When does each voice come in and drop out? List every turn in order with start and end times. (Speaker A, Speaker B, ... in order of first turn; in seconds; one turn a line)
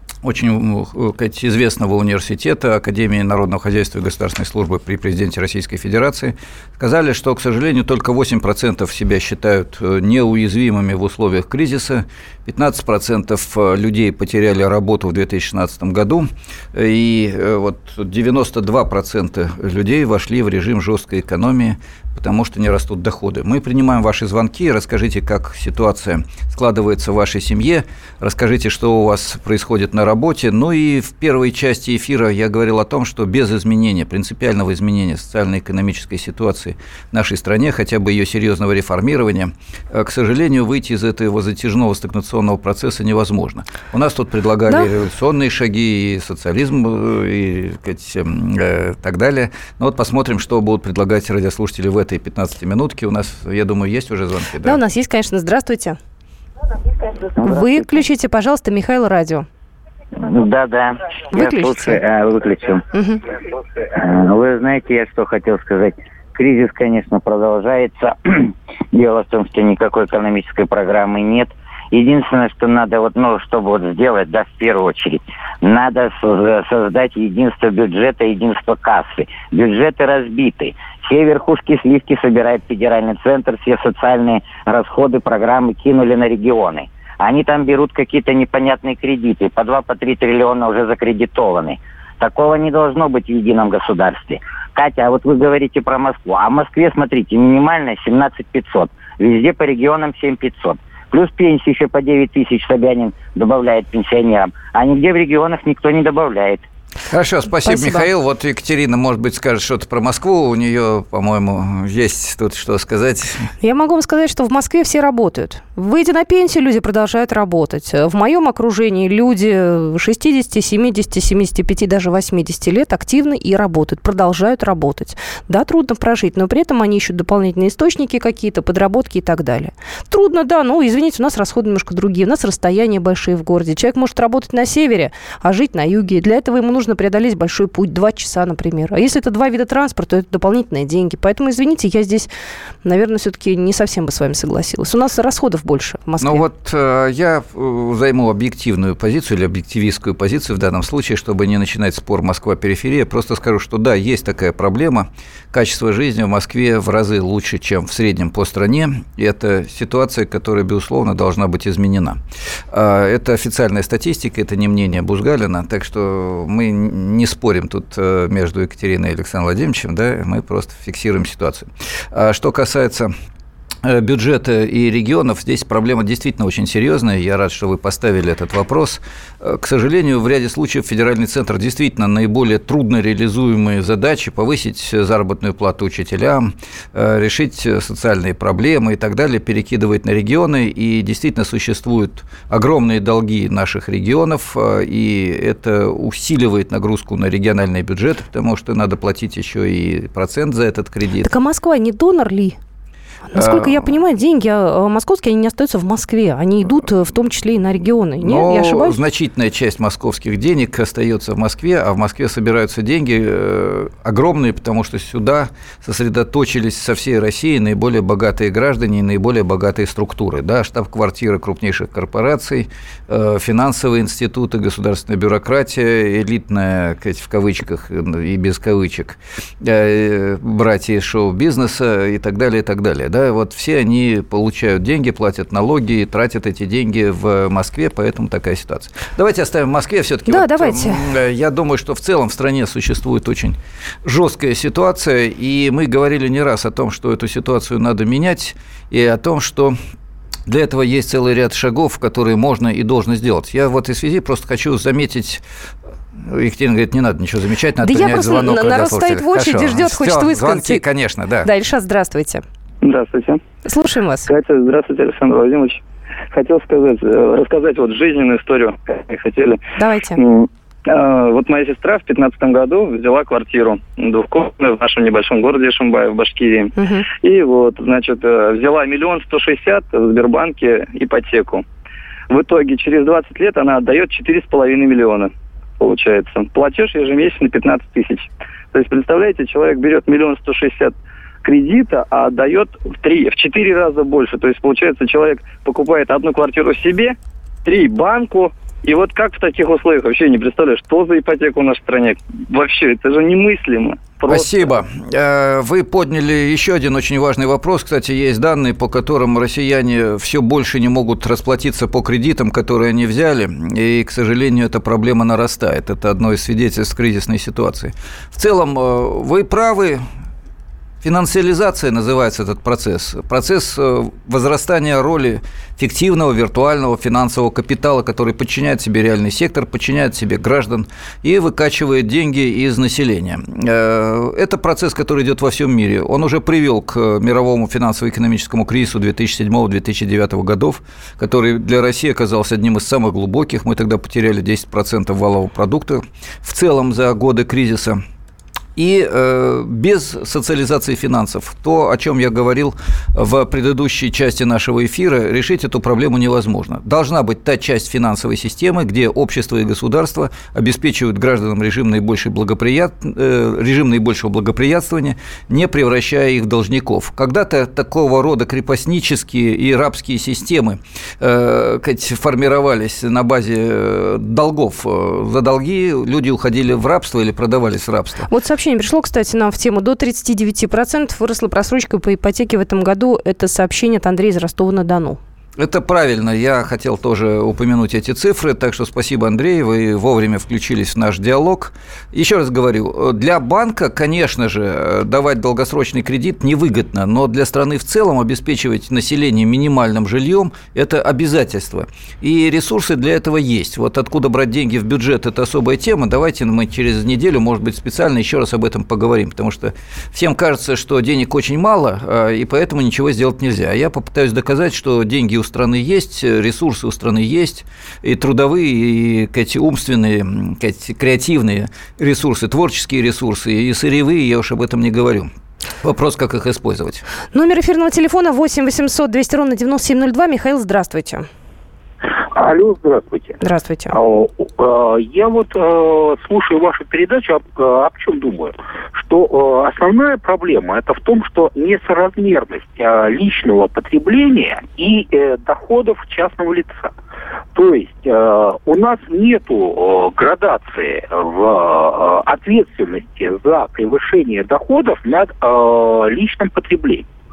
Speaker A: 0.2-54.8
Speaker B: 54.6-56.0
Speaker C: 57.4-58.0
Speaker B: 57.4-59.5
Speaker C: 60.2-62.8
Speaker B: 61.3-62.0
Speaker B: 62.9-63.2
Speaker C: 64.0-106.6
Speaker A: 107.1-113.5
Speaker B: 107.7-108.1
Speaker B: 113.6-142.3
Speaker B: 142.8-146.5
Speaker A: 146.2-162.2
Speaker A: 162.7-173.1
Speaker A: 173.8-201.3
Speaker B: 201.2-202.6
Speaker B: 203.3-209.0
Speaker A: 203.3-203.9
Speaker A: 208.2-249.8
Speaker B: 240.3-241.1
Speaker A: 250.5-255.4
Speaker A: 256.2-261.5
Speaker B: 257.8-260.8
Speaker B: 261.4-262.4
Speaker D: 262.8-263.4
Speaker B: 263.7-264.3
Speaker D: 264.3-265.8
Speaker D: 266.3-269.6
Speaker B: 269.8-270.2
Speaker D: 270.2-281.6
Speaker B: 276.8-277.1
Speaker D: 282.3-304.5
Speaker A: 304.3-320.0
Speaker A: 321.0-348.0
Speaker A: 348.8-378.3
Speaker B: 378.3-385.2
Speaker A: 385.6-425.3
Speaker A: 425.8-427.0
Speaker B: 427.3-431.3
Speaker E: 432.1-433.4
Speaker B: 433.4-434.0
Speaker E: 433.9-446.9
Speaker E: 447.5-457.1